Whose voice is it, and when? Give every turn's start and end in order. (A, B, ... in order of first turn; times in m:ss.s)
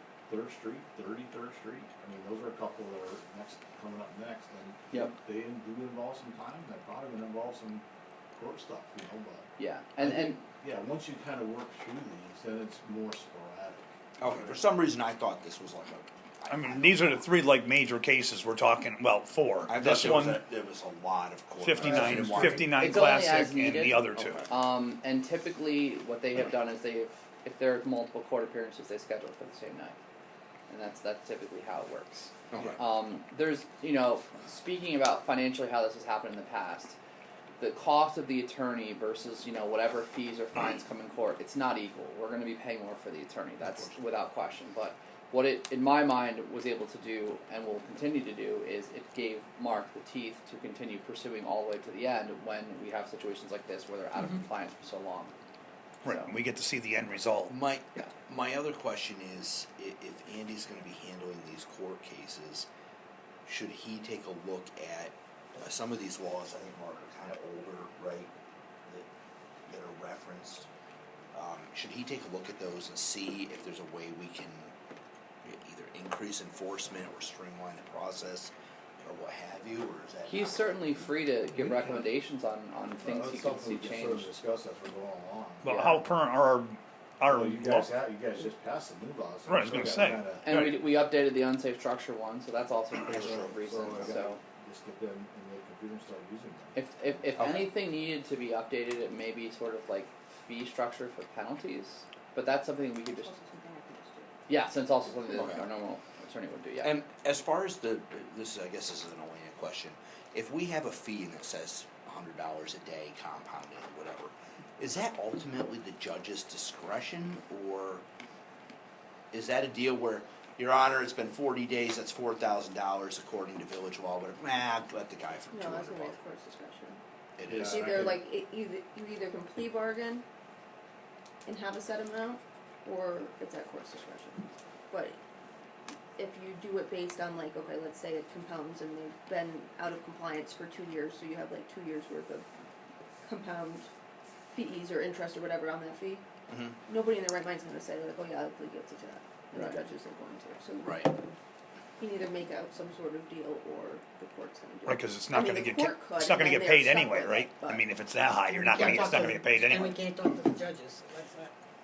0:00.3-0:09.5 A
0:09.6-0:10.4 B
0:10.0-0:14.6 A
0:14.2-0:17.3 C
0:16.5-0:20.5 D
0:19.7-0:22.8 C
0:21.6-0:24.4 D
0:21.9-0:30.0 B
0:24.2-0:24.6 C
0:30.7-0:37.0 B
0:32.5-0:32.8 C
0:37.6-0:55.3 B
0:56.0-0:57.5 D
0:56.0-0:56.3 B
0:57.5-1:02.7 C
1:03.4-1:08.3 C
1:09.7-1:10.7 C
1:11.3-1:14.7 C
1:15.4-1:20.9 C
1:20.3-1:24.4 B
1:21.6-1:22.0 A
1:23.0-1:26.0 A
1:25.6-1:27.9 D
1:25.7-1:26.0 B
1:27.3-1:30.5 A
1:29.5-1:30.8 D
1:30.4-1:34.4 B
1:33.0-1:34.1 C
1:33.1-1:37.5 A
1:36.8-1:43.3 B
1:37.4-1:37.7 C
1:43.1-1:44.3 E
1:44.5-1:47.0 B
1:45.3-1:45.6 C
1:46.8-1:58.0 C
1:59.3-2:06.2 C
2:05.5-2:07.0 E
2:07.4-2:08.1 C
2:07.5-2:08.2 A
2:07.5-2:10.2 E
2:11.4-2:15.2 E
2:16.2-2:22.5 E
2:23.2-2:23.9 E
2:24.5-2:26.2 E
2:26.5-2:26.8 C
2:26.9-2:31.3 E
2:30.8-2:31.1 C
2:32.0-2:37.9 E
2:34.8-2:40.0 D
2:38.7-2:39.3 E
2:38.7-2:41.5 F